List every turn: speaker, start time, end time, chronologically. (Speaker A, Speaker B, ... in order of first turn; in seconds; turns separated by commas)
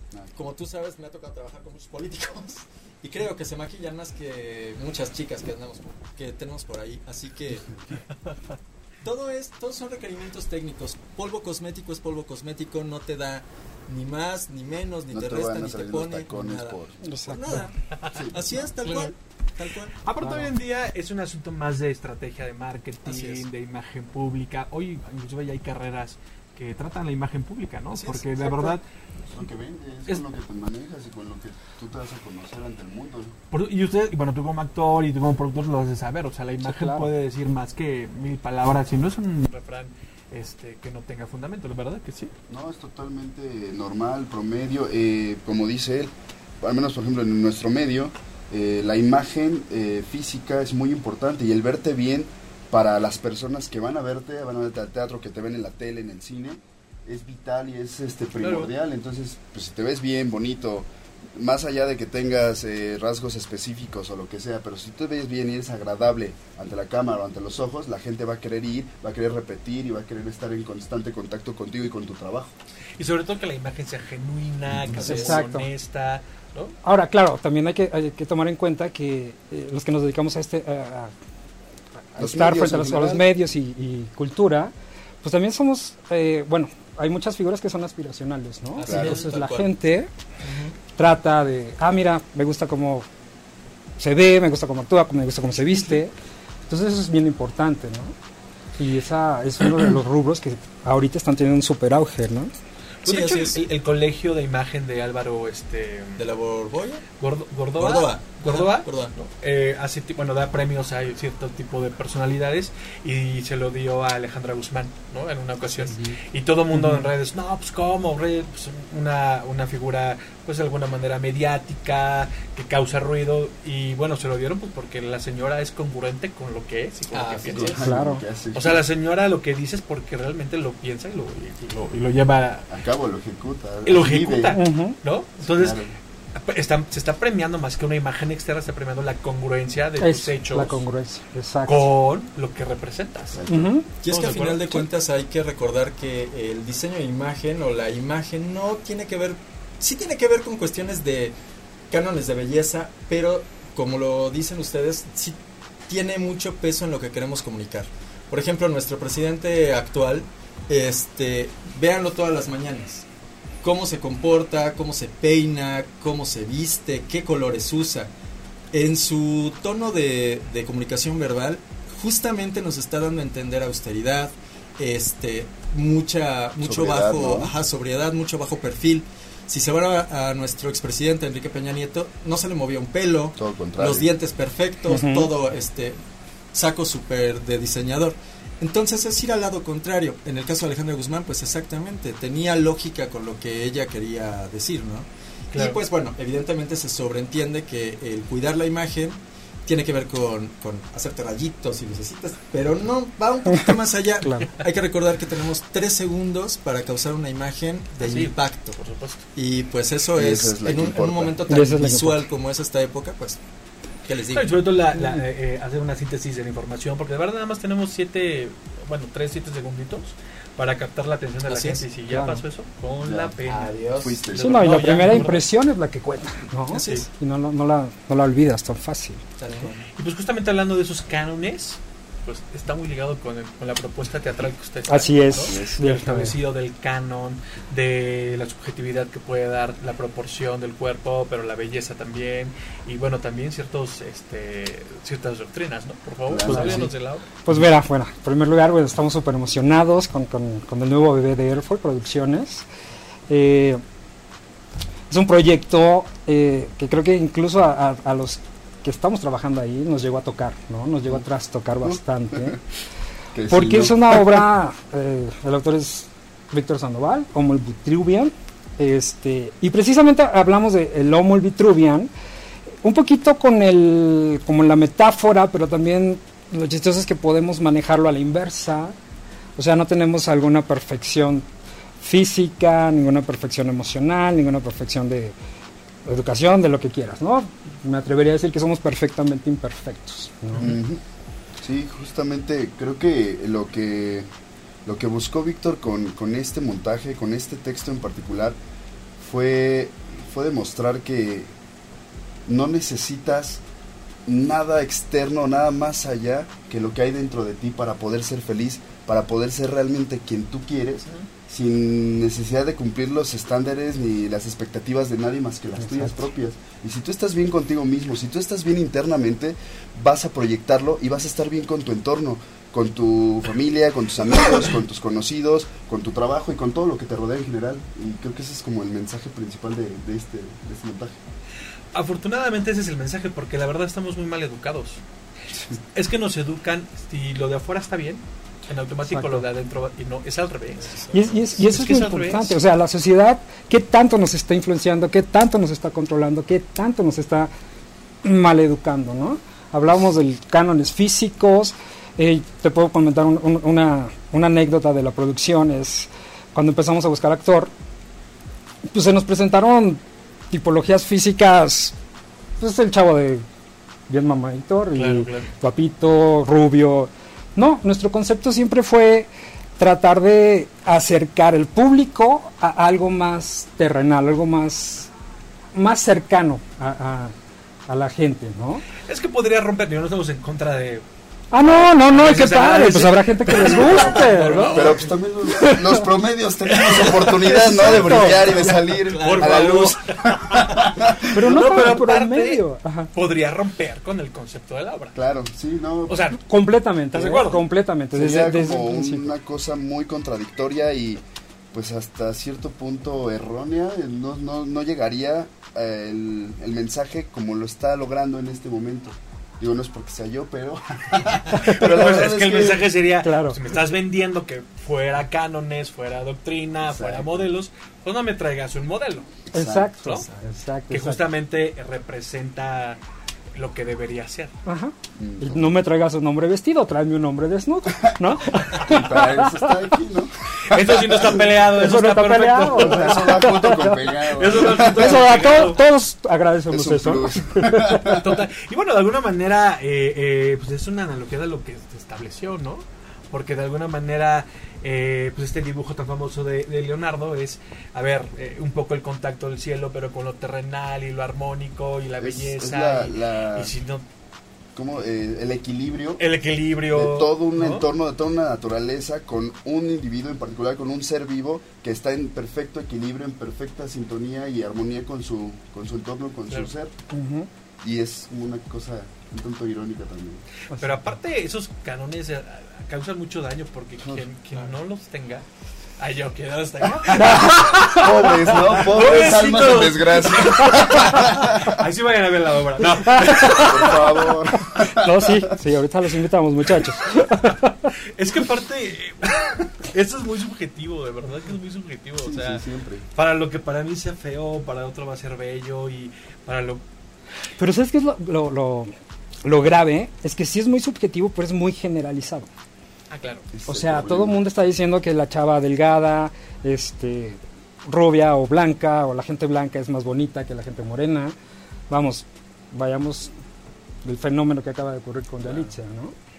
Speaker A: 0.3-7.8, Speaker A: 9.0-20.0, Speaker B: 15.1-17.0, Speaker C: 17.0-17.6, Speaker B: 18.1-18.5, Speaker D: 18.8-19.1, Speaker D: 20.0-28.8, Speaker C: 20.2-20.5, Speaker A: 23.0-23.4, Speaker A: 27.9-28.8, Speaker B: 29.3-33.4, Speaker D: 33.5-42.3, Speaker C: 36.6-37.1, Speaker B: 42.5-72.5, Speaker D: 58.4-58.7, Speaker D: 73.0-76.8, Speaker B: 74.8-75.2, Speaker A: 74.9-75.4, Speaker C: 75.0-75.7, Speaker C: 76.8-81.1, Speaker C: 82.1-84.7, Speaker B: 82.2-83.3, Speaker C: 85.2-90.1, Speaker A: 88.8-89.7, Speaker D: 88.8-89.1, Speaker B: 88.8-89.2, Speaker A: 90.4-90.7, Speaker C: 91.0-93.1, Speaker C: 94.0-96.1, Speaker C: 96.7-98.1, Speaker C: 98.8-102.5, Speaker D: 103.0-106.2, Speaker A: 103.0-103.6, Speaker A: 106.2-107.1, Speaker D: 107.2-127.8, Speaker A: 107.8-109.1, Speaker C: 115.8-116.2, Speaker C: 116.7-117.1, Speaker A: 127.1-127.8, Speaker B: 127.5-128.8, Speaker C: 127.8-128.2, Speaker D: 128.5-132.7, Speaker B: 132.7-134.6, Speaker D: 133.8-135.8, Speaker C: 134.5-135.0, Speaker B: 135.6-135.9, Speaker D: 136.3-140.8, Speaker C: 140.0-141.9, Speaker D: 141.7-143.5, Speaker B: 143.3-143.7, Speaker C: 143.5-143.8, Speaker A: 144.0-151.3, Speaker D: 144.1-144.8, Speaker A: 151.9-155.4, Speaker A: 155.9-163.1, Speaker A: 163.6-168.1, Speaker A: 168.7-186.0, Speaker B: 176.6-177.5, Speaker B: 183.4-184.1, Speaker C: 184.9-185.3, Speaker A: 186.5-208.8, Speaker D: 195.5-195.8, Speaker C: 204.2-204.5, Speaker D: 208.0-209.2, Speaker A: 209.3-213.4, Speaker B: 210.2-211.4, Speaker C: 211.5-212.2, Speaker A: 214.0-214.6, Speaker D: 214.3-225.4, Speaker C: 214.9-215.2, Speaker A: 221.5-221.8, Speaker C: 222.1-222.4, Speaker B: 223.0-223.3, Speaker A: 223.4-224.2, Speaker B: 223.9-224.8, Speaker C: 224.3-229.2, Speaker A: 226.7-227.1, Speaker D: 226.8-227.1, Speaker A: 229.4-229.9, Speaker D: 229.9-247.3, Speaker C: 234.9-236.3, Speaker B: 235.4-235.8, Speaker B: 246.3-246.9, Speaker A: 246.4-246.8, Speaker C: 247.4-252.6, Speaker C: 253.3-253.8, Speaker C: 255.1-262.6, Speaker B: 261.8-262.6, Speaker B: 263.3-264.4, Speaker C: 263.5-272.1, Speaker C: 272.8-278.9, Speaker C: 279.6-281.4, Speaker C: 282.0-285.3, Speaker C: 286.0-290.7, Speaker B: 290.6-291.0, Speaker B: 291.6-294.3, Speaker B: 294.8-298.6, Speaker B: 299.2-301.5, Speaker B: 302.5-303.6, Speaker B: 304.2-331.2, Speaker C: 315.8-316.2, Speaker D: 331.9-335.0, Speaker D: 335.9-342.6, Speaker C: 339.1-339.4, Speaker A: 340.9-341.3, Speaker C: 341.1-347.5, Speaker C: 348.2-357.7, Speaker C: 358.9-361.9, Speaker C: 362.6-363.4, Speaker C: 364.1-369.3, Speaker D: 364.9-365.5, Speaker C: 369.8-375.1, Speaker C: 375.7-377.3, Speaker C: 377.9-378.9, Speaker D: 379.0-381.0, Speaker C: 381.5-384.9, Speaker D: 381.8-385.1, Speaker B: 383.7-391.9, Speaker C: 385.5-386.1, Speaker D: 386.6-395.2, Speaker A: 387.3-389.9, Speaker C: 387.8-388.4, Speaker A: 390.6-390.9, Speaker C: 391.2-393.1, Speaker B: 395.1-396.2, Speaker D: 396.1-396.4, Speaker C: 396.4-399.3, Speaker D: 397.1-397.6, Speaker B: 398.1-412.9, Speaker D: 411.2-419.4, Speaker C: 413.2-413.6, Speaker B: 416.8-417.5, Speaker B: 419.5-419.9, Speaker C: 419.5-421.2, Speaker D: 420.0-420.3, Speaker D: 420.9-423.0, Speaker D: 423.6-424.5, Speaker C: 424.6-429.7, Speaker B: 425.1-425.8, Speaker B: 428.1-431.5, Speaker D: 430.6-433.7, Speaker C: 431.7-438.2, Speaker B: 432.7-435.4, Speaker D: 434.3-435.8, Speaker B: 436.7-438.4, Speaker D: 438.0-454.0, Speaker B: 452.2-453.7, Speaker B: 454.7-456.2, Speaker D: 456.2-457.9, Speaker B: 456.9-466.9, Speaker C: 467.1-467.5, Speaker B: 467.8-470.4, Speaker C: 470.7-471.1, Speaker D: 470.8-475.4, Speaker D: 476.0-484.0, Speaker C: 477.1-478.5, Speaker B: 477.2-481.8, Speaker C: 483.0-484.0, Speaker B: 483.4-485.5, Speaker C: 484.7-487.9, Speaker D: 488.1-492.6, Speaker B: 492.2-493.1, Speaker D: 493.1-496.8, Speaker C: 497.6-498.9, Speaker C: 499.4-502.5, Speaker D: 503.1-503.5, Speaker B: 503.5-504.4, Speaker C: 503.7-511.3, Speaker C: 511.9-513.3, Speaker C: 514.0-516.1, Speaker A: 515.4-515.7